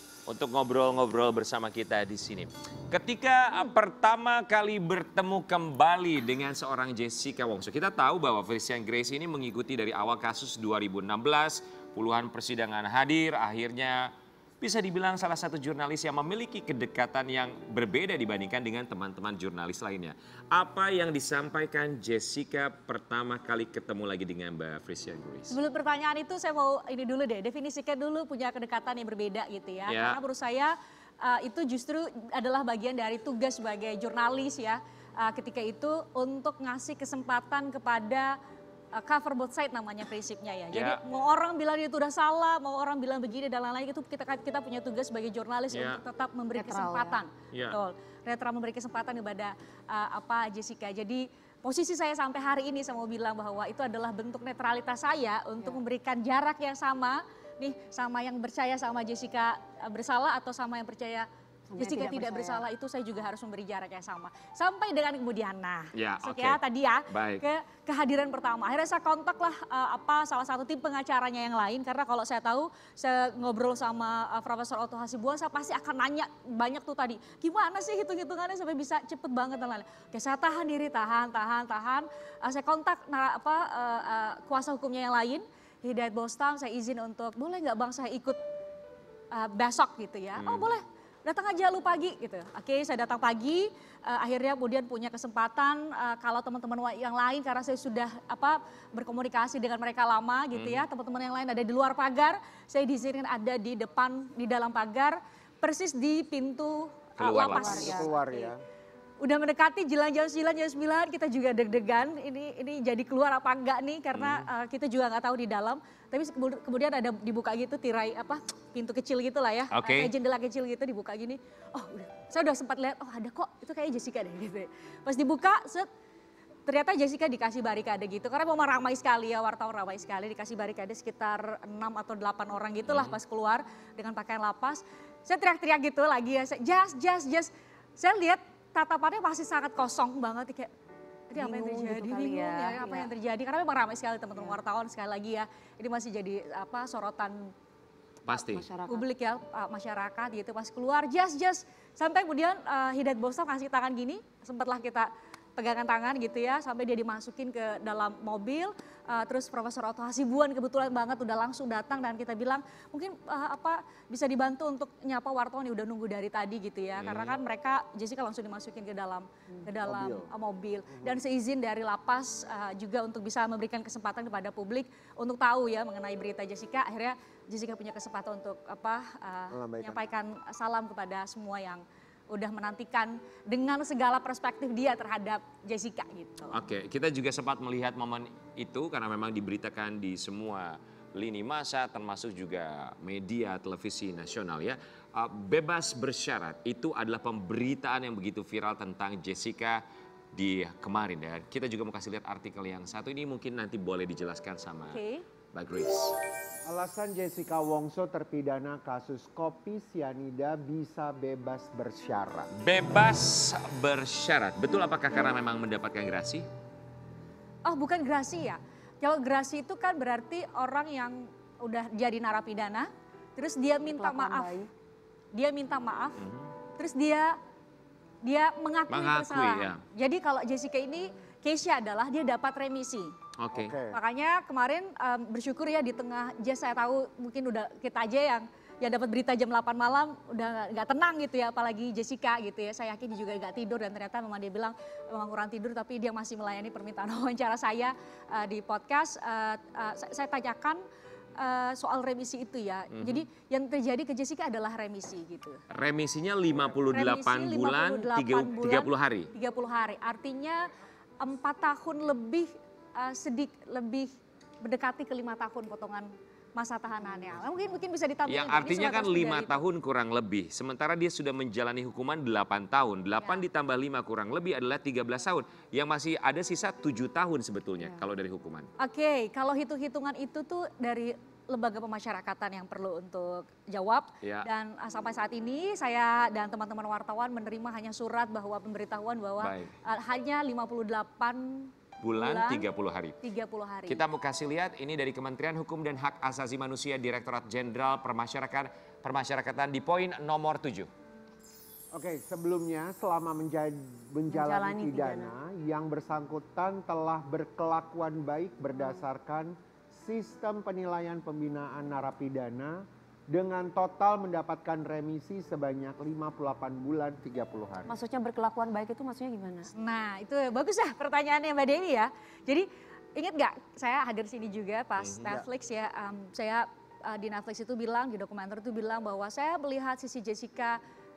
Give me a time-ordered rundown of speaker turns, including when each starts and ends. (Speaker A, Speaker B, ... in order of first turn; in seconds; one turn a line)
Speaker A: 0.3-25.6
Speaker B: 25.5-38.3
Speaker A: 29.9-30.2
Speaker B: 38.9-88.4
Speaker A: 40.7-41.0
Speaker A: 45.7-46.0
Speaker C: 46.5-47.2
Speaker A: 47.5-47.8
Speaker C: 61.7-62.6
Speaker A: 65.9-67.4
Speaker B: 89.3-108.4
Speaker A: 90.4-90.7
Speaker A: 100.5-100.8
Speaker A: 107.2-108.0
Speaker C: 107.4-108.4
Speaker D: 107.7-108.6
Speaker B: 109.2-125.9
Speaker A: 114.1-114.5
Speaker A: 119.7-120.1
Speaker B: 126.7-140.7
Speaker A: 132.9-133.2
Speaker B: 141.3-147.5
Speaker C: 141.3-143.1
Speaker A: 148.2-148.7
Speaker C: 148.3-149.0
Speaker B: 148.9-186.6
Speaker A: 167.0-167.4
Speaker D: 169.8-170.3
Speaker D: 170.9-171.2
Speaker D: 179.5-180.0
Speaker A: 186.5-199.8
Speaker A: 200.3-205.0
Speaker B: 204.9-205.2
Speaker A: 205.5-206.2
Speaker D: 206.6-212.5
Speaker A: 212.6-216.4
Speaker B: 217.6-224.6
Speaker C: 223.8-224.7
Speaker B: 225.3-226.2
Speaker A: 226.2-226.5
Speaker B: 226.8-227.4
Speaker B: 228.2-233.1
Speaker A: 228.9-229.8
Speaker A: 233.4-233.8
Speaker D: 233.5-233.9
Speaker B: 233.9-250.8
Speaker B: 251.4-255.6
Speaker A: 252.9-253.2
Speaker A: 255.7-259.3
Speaker B: 256.9-260.6
Speaker B: 261.2-264.1
Speaker B: 264.6-269.6
Speaker A: 268.3-278.7
Speaker B: 278.8-292.7
Speaker A: 284.2-284.5
Speaker A: 289.4-289.7
Speaker A: 292.0-293.2
Speaker B: 293.2-294.0
Speaker A: 293.9-300.9
Speaker D: 301.9-317.9
Speaker C: 304.3-305.3
Speaker C: 308.8-309.0
Speaker C: 317.9-319.7
Speaker B: 319.7-330.8
Speaker A: 325.0-325.3